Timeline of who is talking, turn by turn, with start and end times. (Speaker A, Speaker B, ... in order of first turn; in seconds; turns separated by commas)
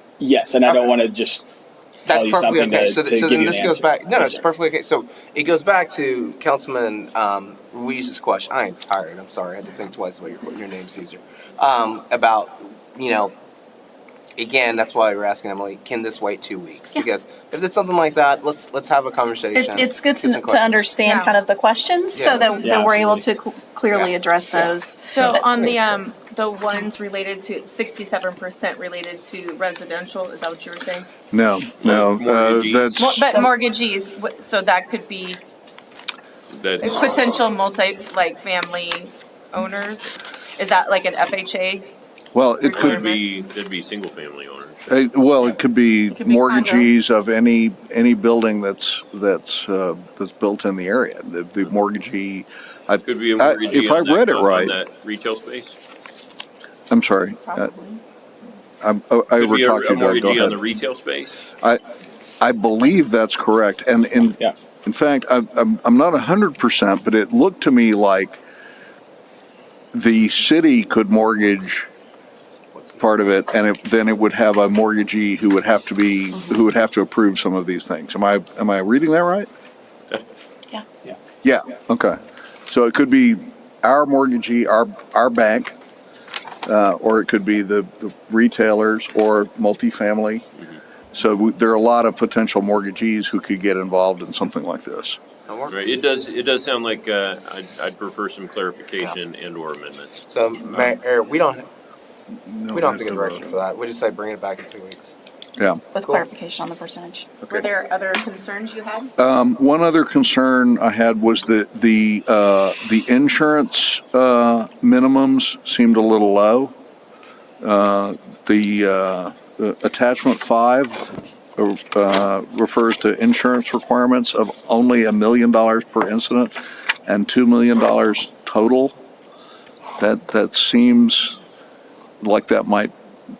Speaker A: 0.2-1.5, Speaker B: 0.7-0.9, Speaker B: 2.1-13.3, Speaker A: 2.1-4.4, Speaker B: 14.4-20.9, Speaker C: 19.5-25.8, Speaker D: 21.1-21.4, Speaker B: 22.1-22.7, Speaker A: 22.6-23.3, Speaker B: 23.9-26.0, Speaker D: 25.0-31.1, Speaker E: 31.3-33.3, Speaker F: 31.8-33.1, Speaker D: 33.0-35.4, Speaker F: 36.5-37.0, Speaker D: 36.8-41.9, Speaker E: 42.3-43.0, Speaker D: 42.6-43.3, Speaker F: 42.8-44.8, Speaker E: 44.9-54.7, Speaker D: 46.1-46.9, Speaker F: 53.0-55.8, Speaker E: 56.9-57.8, Speaker C: 57.5-58.0, Speaker E: 58.8-60.6, Speaker F: 59.4-61.5, Speaker E: 62.4-68.4, Speaker E: 69.9-71.9, Speaker B: 72.7-73.1, Speaker E: 73.0-79.5, Speaker E: 81.4-82.2, Speaker E: 82.7-85.7, Speaker E: 86.7-90.5, Speaker E: 91.1-95.2, Speaker B: 95.5-96.0, Speaker F: 95.7-100.9, Speaker B: 100.3-101.7, Speaker E: 102.5-103.6, Speaker B: 102.7-105.2, Speaker C: 105.9-107.4, Speaker D: 107.5-109.1, Speaker E: 109.2-116.7, Speaker E: 117.6-126.5, Speaker E: 127.1-129.0, Speaker E: 130.0-131.4, Speaker E: 132.2-132.9